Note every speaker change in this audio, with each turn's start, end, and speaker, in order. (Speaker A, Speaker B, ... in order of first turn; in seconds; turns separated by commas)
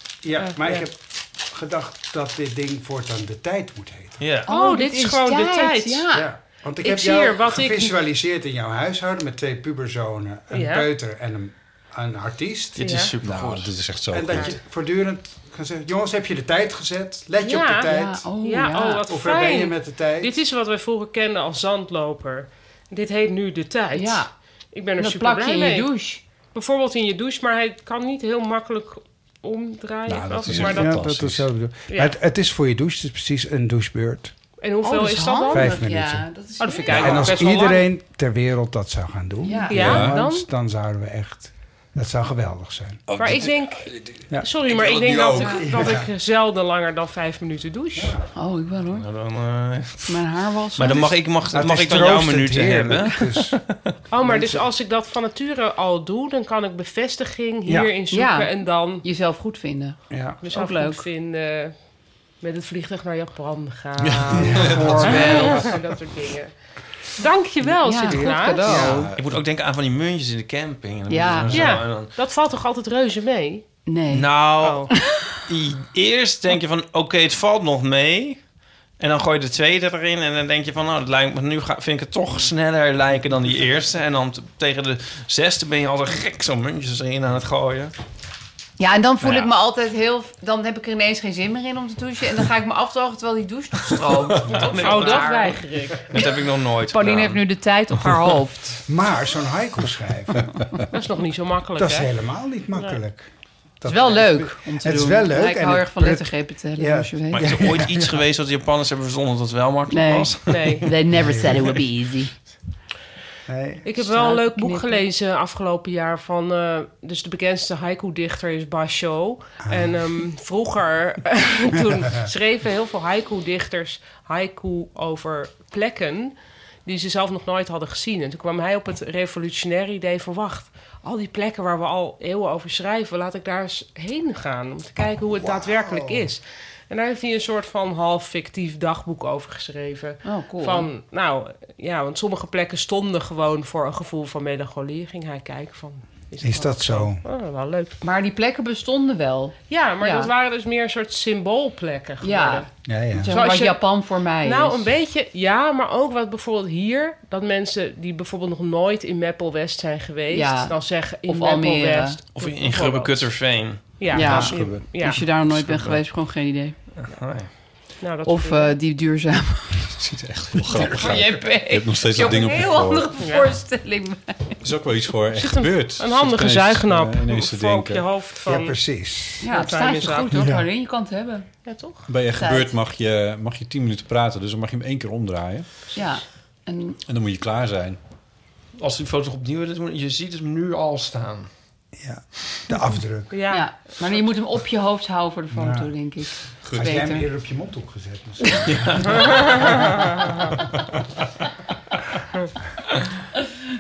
Speaker A: 0.2-4.2, Speaker B: 0.4-0.9, Speaker C: 4.2-4.5, Speaker D: 4.5-6.3, Speaker B: 4.5-6.1, Speaker A: 6.1-12.9, Speaker B: 6.8-7.9, Speaker B: 10.5-10.9, Speaker C: 12.8-13.8, Speaker B: 12.8-13.1, Speaker E: 13.2-14.6, Speaker A: 14.1-18.3, Speaker B: 17.4-31.0, Speaker D: 17.9-19.1, Speaker A: 19.1-20.4, Speaker D: 23.9-24.4, Speaker D: 25.0-26.2, Speaker E: 30.1-31.5, Speaker A: 30.5-34.3, Speaker B: 31.9-32.2, Speaker B: 34.6-35.8, Speaker D: 34.8-37.3, Speaker A: 35.5-36.3, Speaker B: 36.6-37.9, Speaker A: 36.9-43.0, Speaker E: 36.9-37.2, Speaker D: 39.4-40.0, Speaker B: 39.7-40.5, Speaker E: 39.7-40.2, Speaker E: 43.1-45.8, Speaker B: 43.2-48.2, Speaker D: 45.4-45.7, Speaker A: 45.6-46.1, Speaker A: 48.0-48.3, Speaker D: 48.3-49.1, Speaker C: 48.9-53.8, Speaker D: 50.1-51.2, Speaker A: 51.5-53.6, Speaker B: 54.1-59.0, Speaker A: 54.2-54.6, Speaker A: 57.7-57.9, Speaker D: 58.1-61.0, Speaker A: 60.1-60.4, Speaker B: 60.4-61.9, Speaker B: 62.4-68.8, Speaker E: 64.0-65.8, Speaker A: 64.4-65.7, Speaker D: 64.8-65.6, Speaker D: 67.7-69.1, Speaker A: 68.7-69.1, Speaker E: 68.7-69.4, Speaker C: 69.1-72.1, Speaker D: 71.1-71.8, Speaker B: 71.5-73.7, Speaker D: 73.9-74.3, Speaker C: 74.1-74.9, Speaker B: 74.6-74.9, Speaker D: 74.9-75.4, Speaker C: 75.5-78.4, Speaker C: 79.0-87.9, Speaker D: 88.8-96.2, Speaker C: 89.2-89.5, Speaker C: 94.0-95.3, Speaker B: 94.6-96.2, Speaker C: 96.1-97.4, Speaker D: 96.9-98.8, Speaker A: 98.8-100.8, Speaker B: 100.9-102.1, Speaker A: 101.8-103.3, Speaker A: 103.8-108.2, Speaker D: 103.9-107.6, Speaker C: 107.3-111.0, Speaker D: 109.9-112.3, Speaker B: 110.5-110.9, Speaker A: 111.1-111.8, Speaker A: 113.5-113.9, Speaker B: 113.8-148.0, Speaker D: 114.0-115.1, Speaker A: 119.6-120.0, Speaker A: 135.3-136.3, Speaker D: 140.2-140.9, Speaker A: 146.4-147.2, Speaker D: 148.0-150.3, Speaker B: 149.7-152.7, Speaker D: 152.2-154.9, Speaker A: 152.9-153.3, Speaker B: 153.3-153.8, Speaker B: 154.4-165.2, Speaker D: 160.3-162.2, Speaker C: 162.3-164.4, Speaker D: 164.1-166.8, Speaker E: 164.3-164.8, Speaker C: 165.2-166.0, Speaker C: 167.0-167.5, Speaker B: 168.0-168.8, Speaker D: 168.2-170.0, Speaker E: 170.0-173.1, Speaker D: 170.7-174.6, Speaker B: 173.2-173.5, Speaker E: 174.6-178.1, Speaker B: 175.4-178.8, Speaker A: 178.4-179.5, Speaker D: 179.4-181.5, Speaker B: 179.4-180.4, Speaker A: 180.3-180.7, Speaker B: 181.7-182.1, Speaker E: 182.1-185.7, Speaker D: 182.3-182.7, Speaker D: 185.9-187.0, Speaker E: 187.0-188.0, Speaker C: 188.8-191.5, Speaker A: 192.0-193.4, Speaker B: 193.3-193.7, Speaker D: 193.5-197.3, Speaker A: 195.5-195.9, Speaker A: 196.5-200.3, Speaker E: 196.6-197.1